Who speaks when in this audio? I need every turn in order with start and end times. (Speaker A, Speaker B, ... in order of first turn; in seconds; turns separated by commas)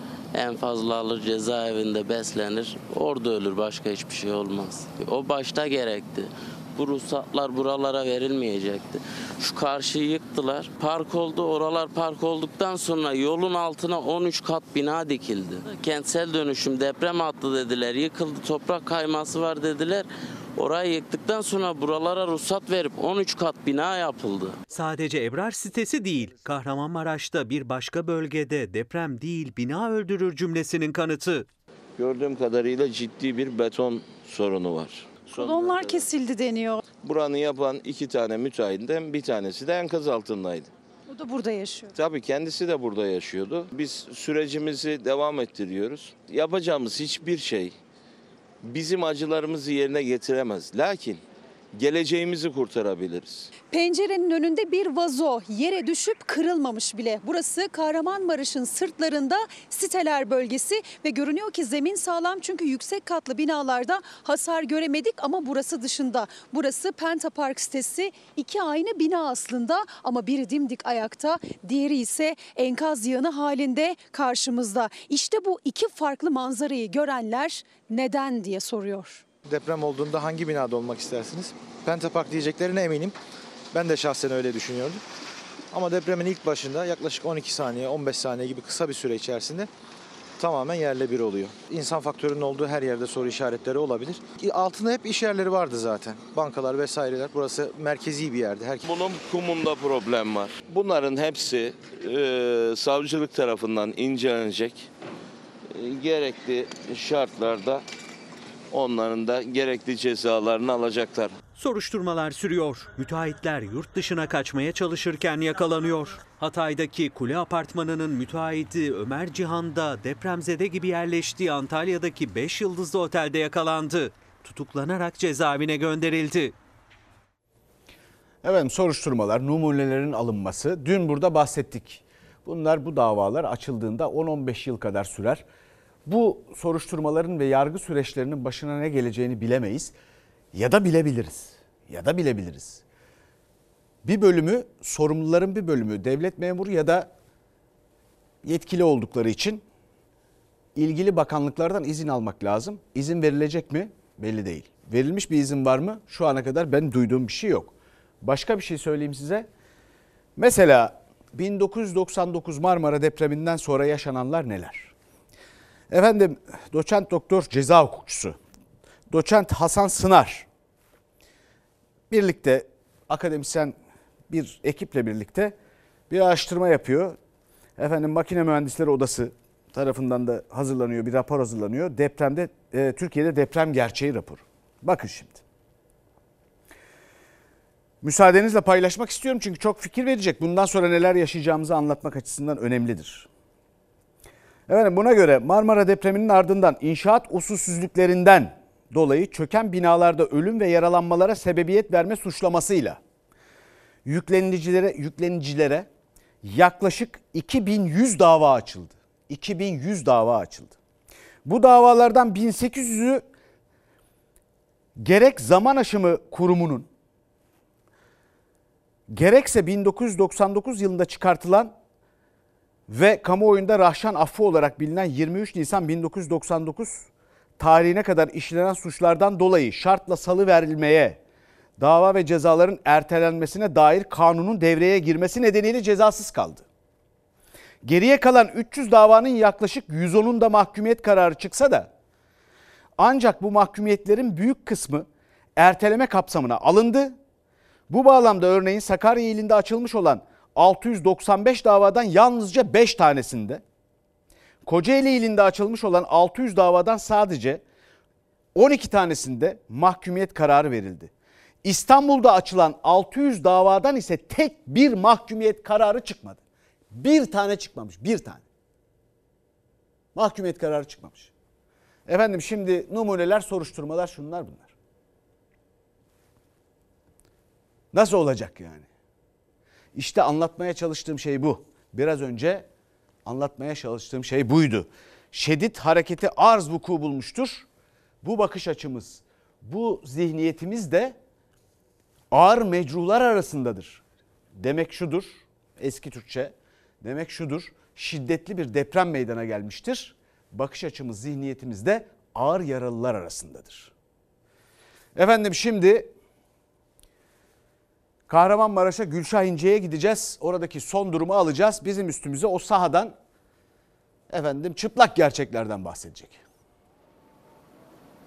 Speaker A: 0.3-24.6, Speaker B: 24.7-31.5, Speaker C: 32.0-35.9, Speaker D: 35.3-36.8, Speaker C: 37.0-40.7, Speaker D: 41.1-41.9, Speaker C: 42.0-47.7, Speaker C: 48.6-51.2, Speaker C: 51.7-53.5, Speaker D: 53.7-79.2, Speaker E: 79.5-83.2, Speaker E: 83.7-85.0, Speaker E: 85.7-89.7, Speaker E: 90.4-98.8, Speaker C: 98.8-104.9, Speaker C: 105.7-107.8, Speaker C: 108.7-111.3, Speaker B: 111.5-126.5, Speaker F: 128.4-135.4, Speaker F: 136.1-139.9, Speaker F: 140.5-142.8, Speaker F: 144.0-147.1, Speaker F: 148.4-149.6, Speaker F: 150.8-159.5, Speaker F: 160.4-164.9, Speaker F: 165.9-168.4, Speaker F: 169.1-170.5, Speaker F: 172.1-173.8, Speaker F: 174.3-175.6, Speaker F: 176.1-177.2, Speaker F: 177.8-185.4, Speaker F: 188.0-193.3, Speaker F: 194.7-203.0, Speaker F: 204.0-205.9, Speaker F: 206.4-210.8, Speaker F: 211.4-213.2, Speaker F: 215.0-216.9, Speaker F: 219.1-221.7, Speaker F: 222.9-227.1, Speaker F: 227.6-231.2, Speaker F: 231.8-236.7, Speaker F: 237.8-241.9, Speaker F: 243.0-247.2, Speaker F: 247.9-253.6, Speaker F: 254.6-257.6, Speaker F: 258.5-261.1, Speaker F: 261.6-266.4, Speaker F: 266.9-268.4, Speaker F: 270.1-271.3, Speaker F: 272.1-274.7, Speaker F: 277.9-278.9, Speaker F: 279.9-282.7, Speaker F: 283.2-287.7, Speaker F: 288.2-291.1, Speaker F: 292.3-294.0, Speaker F: 294.5-303.9, Speaker F: 305.1-306.1, Speaker F: 308.3-313.1, Speaker F: 314.3-316.4